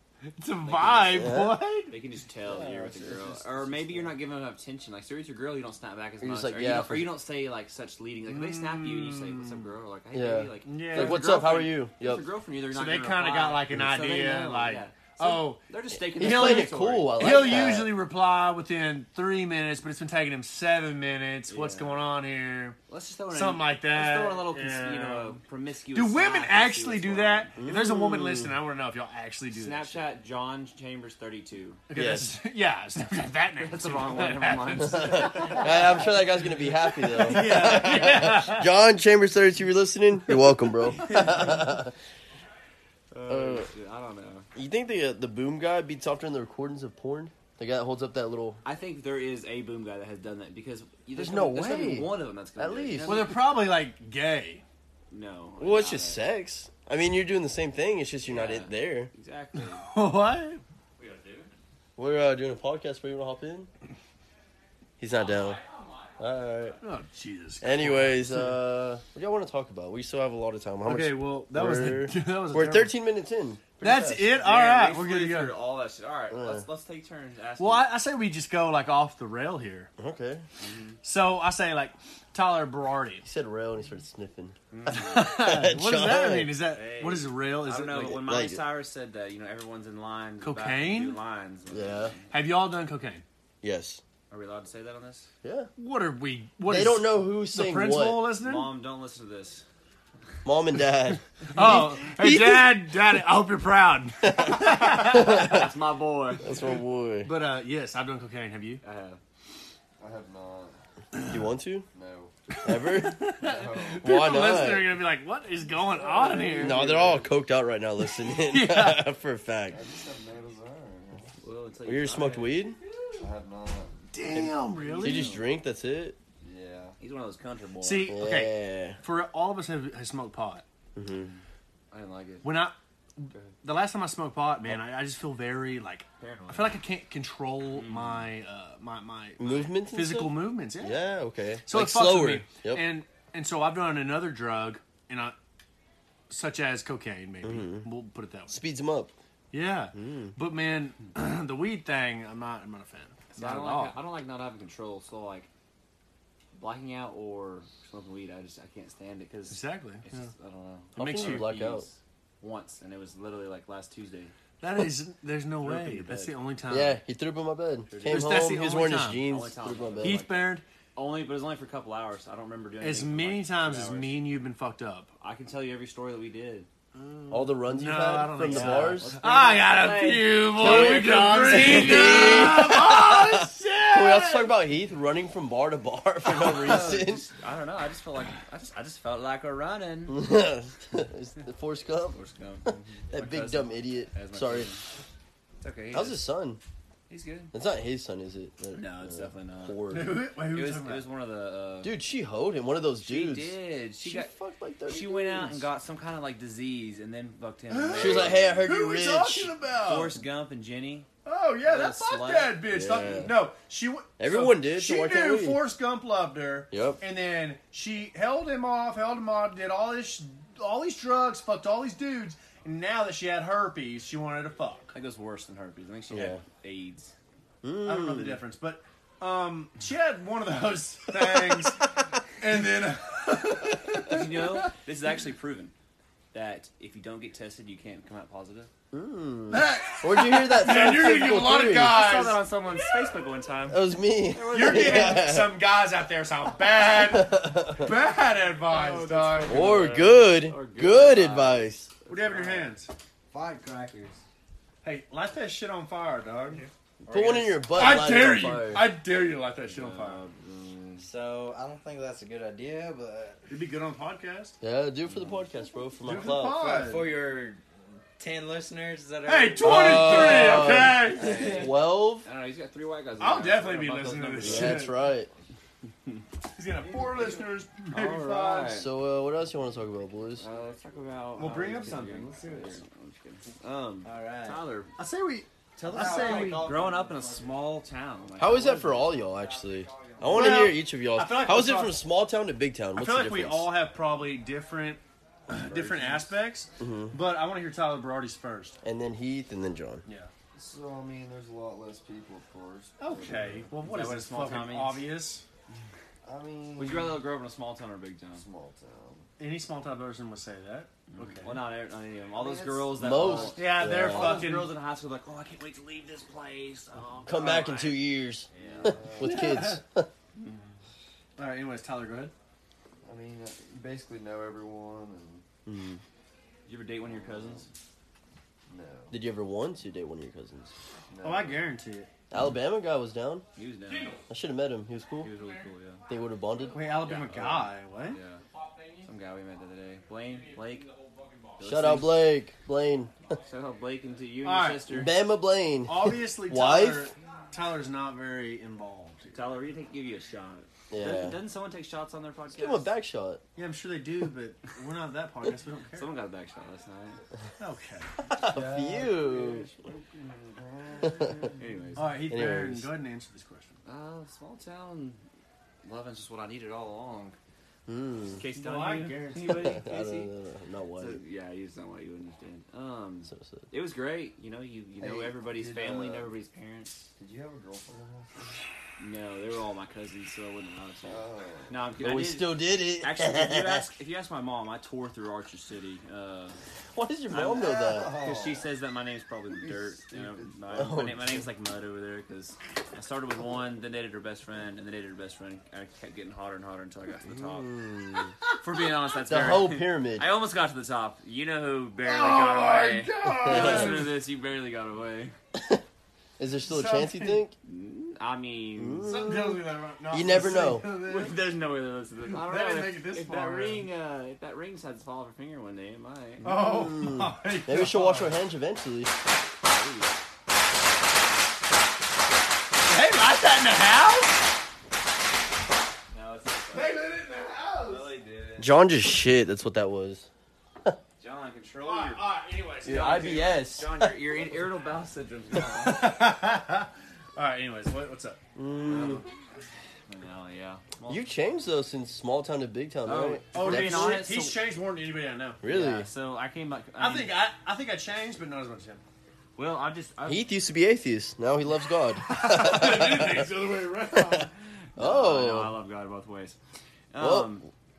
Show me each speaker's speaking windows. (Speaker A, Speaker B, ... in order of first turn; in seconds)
Speaker A: 0.3-2.0, 8.3-9.7, 10.6-11.6, 12.7-15.6, 16.2-22.8, 23.3-25.4, 25.9-30.0, 31.9-35.9, 37.0-38.7, 53.0-54.6, 59.6-60.6, 66.8-68.5, 70.8-72.9, 73.8-75.6, 77.6-79.9, 81.0-83.2, 84.9-88.2, 90.4-91.2, 92.3-93.2, 95.8-98.7, 101.5-105.6, 107.2-108.8, 112.5-117.2, 118.0-119.0, 124.1-125.4, 127.8-130.6, 132.4-141.0, 141.7-145.3, 146.3-148.6, 149.5-154.0, 159.5-160.3, 161.0-161.5, 164.6-167.0, 168.0-169.2, 170.0-170.6, 172.8-175.1, 176.9-184.5, 199.9-201.1, 207.7-210.2, 211.2-224.9, 227.8-231.8, 232.4-234.7, 239.5-242.8, 244.4-249.9, 252.1-252.9, 254.8-256.7, 257.7-260.2, 263.5-264.6, 266.0-267.1, 269.2-271.6, 273.2-274.9, 276.5-278.8, 281.4-282.8, 284.0-286.8, 290.2-291.9, 292.9-298.8, 303.0-305.4, 309.4-311.7, 313.5-314.7, 317.4-317.7, 319.2-319.8, 321.4-322.3, 331.2-332.1, 333.9-334.2, 336.7-338.2, 338.7-339.0, 340.4-341.5, 344.4-344.9, 345.9-349.4, 353.6-356.1, 357.6-358.3, 361.9-363.8, 368.5-369.7, 402.0-404.2, 406.7-407.4, 409.0-411.4, 412.2-413.9, 416.4-418.3, 422.8-424.4, 426.7-428.1, 431.8-433.5, 435.7-438.4, 443.5-445.6, 447.0-449.0, 452.3-454.5
Speaker B: 0.6-1.4, 1.9-17.7, 21.5-22.0, 22.9-27.5, 29.5-31.8, 33.6-36.0, 41.0-41.6, 43.1-44.5, 48.6-53.4, 55.1-56.2, 58.2-59.9, 61.0-61.5, 65.3-65.6, 74.3-77.9, 80.6-81.0, 84.7-85.3, 86.7-92.3, 94.3-95.3, 98.4-99.6, 104.8-106.5, 108.8-109.2, 116.2-116.7, 121.4-122.6, 124.8-125.4, 127.0-128.1, 131.9-132.5, 136.2-136.8, 137.7-138.2, 153.3-155.5, 156.5-164.3, 165.6-166.3, 167.9-168.4, 169.2-174.1, 175.2-176.7, 178.4-182.5, 186.3-190.2, 192.1-194.8, 195.6-196.2, 197.1-197.5, 198.7-201.9, 203.0-204.3, 204.9-208.7, 209.8-211.1, 211.6-212.6, 224.9-227.1, 234.1-235.7, 236.3-238.7, 241.8-243.8, 244.3-245.3, 248.7-252.7, 257.0-258.0, 259.6-261.1, 265.1-265.4, 270.0-274.9, 277.0-278.9, 280.4-284.9, 285.8-289.1, 303.8-305.0, 306.8-308.4, 311.1-319.0, 326.6-327.7, 333.6-334.2, 335.2-336.0, 337.0-338.4, 339.0-340.9, 341.6-342.2, 343.4-345.1, 349.3-352.9, 355.9-357.2, 361.6-362.1, 363.9-365.2, 365.8-367.4, 368.4-370.3, 371.0-377.1, 379.0-386.6, 387.3-397.7, 398.6-405.3, 407.6-409.1, 410.9-416.5, 419.7-420.1, 426.1-427.0, 427.8-428.7, 431.2-432.3, 432.8-436.2, 438.9-439.2, 440.1-441.2, 443.1-444.6, 445.6-447.3, 449.6-450.5, 455.0-456.6, 457.1-457.7
Speaker C: 1.1-1.6, 6.2-7.2, 10.1-12.2, 16.1-18.0, 27.6-28.6, 31.9-32.3, 34.9-41.9, 43.3-43.7, 44.5-48.6, 51.1-53.2, 55.6-59.1, 62.0-63.7, 65.0-65.6, 66.2-66.8, 67.6-74.2, 76.3-76.6, 80.0-80.4, 83.2-84.6, 85.1-86.5, 87.9-88.6, 91.7-92.1, 93.6-94.0, 95.4-95.7, 96.7-98.2, 100.4-102.8, 104.2-105.7, 106.4-107.3, 111.3-111.9, 112.6-113.2, 114.0-115.0, 116.6-119.8, 121.8-122.8, 124.3-126.2, 128.1-129.0, 130.9-131.3, 139.4-142.8, 147.4-147.9, 148.5-149.1, 149.9-150.3, 161.0-161.8, 166.7-170.2, 177.3-179.2, 180.6-187.2, 190.1-192.2, 193.1-194.7, 195.9-196.6, 197.5-200.2, 201.8-205.6, 207.9-209.5, 212.7-213.4, 214.2-215.6, 216.7-217.0, 226.1-226.4, 227.6-228.4, 238.9-242.0, 243.7-245.6, 246.9-247.9, 249.5-251.9, 257.1-258.9, 264.6-266.6, 269.6-272.3, 274.4-275.3, 278.7-280.4, 288.4-293.7, 296.8-297.1, 298.8-300.0, 312.9-314.5, 317.2-320.1, 325.6-326.0, 329.1-330.7, 332.3-333.4, 334.3-335.3, 336.1-336.8, 341.6-343.4, 344.9-347.1, 350.9-351.4, 352.5-353.4, 358.3-359.7, 361.0-361.3, 362.3-362.9, 367.9-368.4, 369.5-371.2, 373.3-373.6, 382.0-383.9, 386.9-388.2, 390.7-391.4, 397.3-398.3, 399.3-400.3, 403.4-404.1, 405.5-405.8, 406.4-407.5, 408.8-410.8, 416.5-419.1, 428.6-430.3, 432.8-434.1, 438.6-439.2, 441.1-444.3, 445.6-446.1, 450.2-453.5, 454.1-455.8, 457.2-457.6
Speaker D: 2.4-4.2, 110.0-110.8, 111.9-112.3, 113.4-114.5, 116.0-117.0, 119.7-121.3, 123.2-124.1, 126.4-127.0, 300.5-303.7, 306.2-307.3, 308.3-309.3, 312.3-313.6, 318.6-319.5, 323.0-325.4, 327.0-327.7, 328.7-329.1, 331.1-331.7, 358.5-361.6, 375.0-376.3, 377.2-378.5, 381.0-381.8, 387.6-388.7, 389.6-390.8
Speaker E: 253.3-254.2, 261.0-263.4, 266.5-267.6, 268.2-270.2, 285.8-287.5